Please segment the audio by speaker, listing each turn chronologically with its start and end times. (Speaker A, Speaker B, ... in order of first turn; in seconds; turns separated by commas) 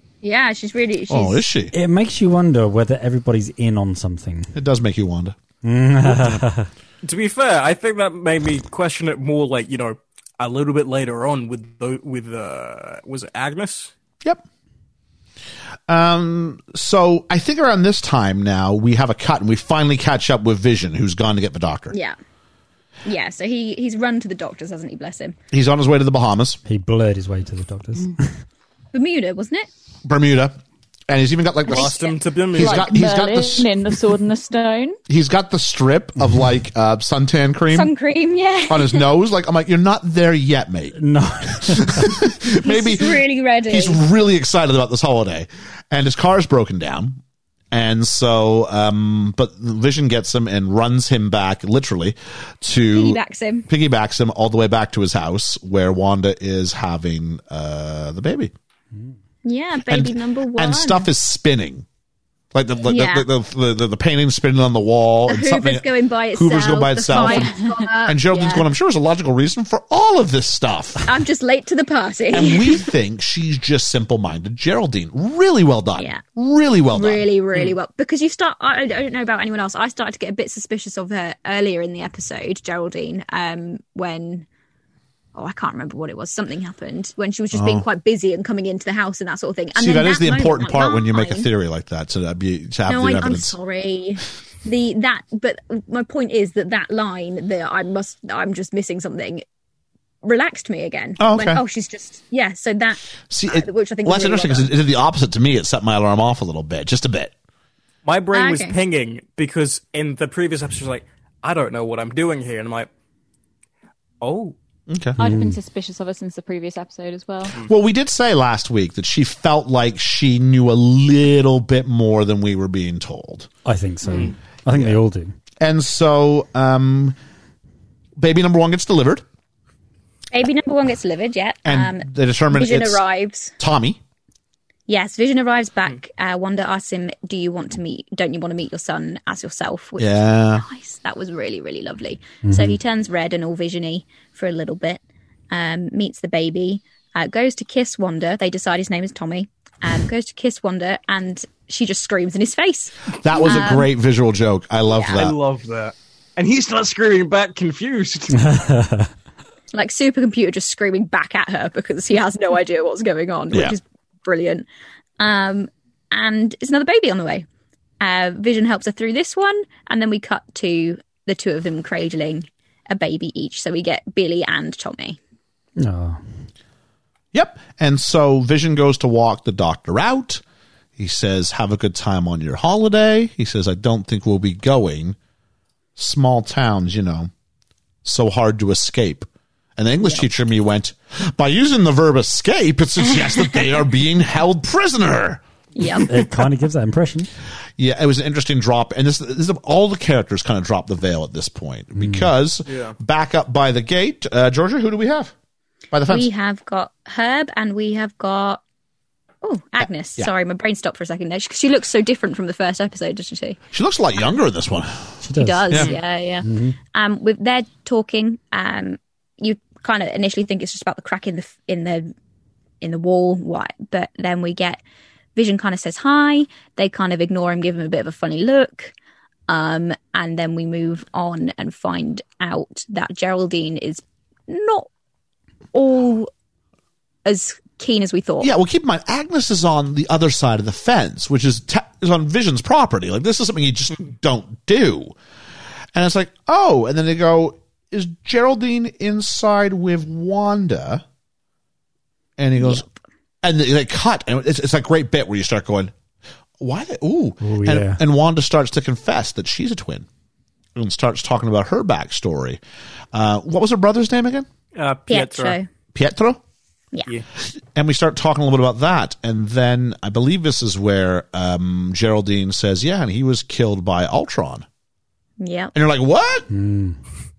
Speaker A: 0.2-1.4, Speaker B: 1.1-1.7, Speaker C: 1.7-4.5, Speaker B: 4.5-5.4, Speaker C: 5.6-6.7, Speaker D: 7.0-13.9, Speaker B: 15.9-21.9, Speaker A: 23.1-25.4, Speaker B: 25.5-26.6, Speaker C: 26.7-28.4, Speaker A: 28.9-29.7, Speaker B: 30.1-30.6, Speaker B: 31.1-33.7, Speaker D: 31.7-32.9, Speaker E: 32.6-35.0, Speaker B: 35.1-37.9, Speaker A: 37.7-39.0, Speaker B: 38.7-41.0, Speaker C: 41.0-42.2, Speaker B: 41.5-47.2, Speaker A: 42.6-44.0, Speaker B: 47.7-58.5, Speaker A: 52.9-53.7, Speaker A: 59.5-61.1, Speaker B: 59.9-61.9, Speaker B: 62.5-71.1, Speaker A: 62.8-63.3, Speaker A: 65.3-68.7, Speaker A: 71.0-72.9, Speaker B: 72.3-77.2, Speaker A: 76.0-76.2, Speaker A: 76.9-84.5, Speaker A: 85.3-91.5, Speaker B: 87.5-87.8, Speaker B: 89.8-93.5, Speaker A: 92.9-99.5, Speaker A: 100.2-104.7, Speaker B: 101.2-101.6, Speaker B: 103.3-107.3, Speaker D: 108.0-112.9, Speaker A: 108.3-108.8, Speaker D: 114.2-114.5, Speaker B: 114.9-115.2, Speaker C: 115.2-115.6, Speaker E: 115.2-117.5, Speaker B: 117.6-123.5, Speaker C: 123.7-125.3, Speaker B: 124.7-125.0, Speaker B: 125.6-127.2, Speaker B: 128.2-129.2, Speaker A: 130.3-133.6, Speaker B: 131.7-133.0, Speaker B: 133.6-134.0, Speaker A: 134.9-153.9, Speaker B: 140.0-140.7, Speaker C: 142.4-142.8, Speaker B: 153.2-155.4, Speaker A: 154.9-155.2, Speaker D: 155.1-158.4, Speaker C: 158.3-159.1, Speaker A: 159.7-164.7, Speaker B: 163.5-163.8, Speaker A: 165.2-167.5, Speaker A: 168.0-175.2, Speaker C: 175.8-176.2, Speaker B: 177.3-180.4, Speaker B: 181.0-185.2, Speaker B: 186.0-187.3, Speaker B: 188.0-195.4, Speaker A: 195.8-196.2, Speaker C: 196.1-197.3, Speaker B: 197.8-205.3, Speaker C: 202.0-202.3, Speaker D: 202.7-202.9, Speaker B: 205.9-206.3, Speaker A: 206.1-208.6, Speaker A: 209.4-213.6, Speaker B: 209.8-210.3, Speaker B: 213.7-215.2, Speaker C: 215.2-215.9, Speaker A: 215.4-222.1, Speaker C: 216.4-216.8, Speaker A: 222.8-224.8, Speaker A: 225.3-228.9, Speaker A: 229.5-234.9, Speaker A: 235.7-236.3, Speaker A: 237.2-238.5, Speaker B: 238.4-245.2, Speaker B: 245.9-251.0, Speaker B: 252.4-252.8, Speaker A: 252.6-252.9, Speaker B: 253.4-255.9, Speaker B: 256.6-260.1, Speaker C: 257.4-258.0, Speaker B: 260.8-262.6, Speaker B: 263.1-264.5, Speaker D: 264.7-265.6, Speaker A: 265.1-265.7, Speaker B: 265.9-266.4, Speaker B: 267.7-274.6, Speaker A: 275.4-275.7, Speaker B: 275.7-276.5, Speaker C: 276.5-277.0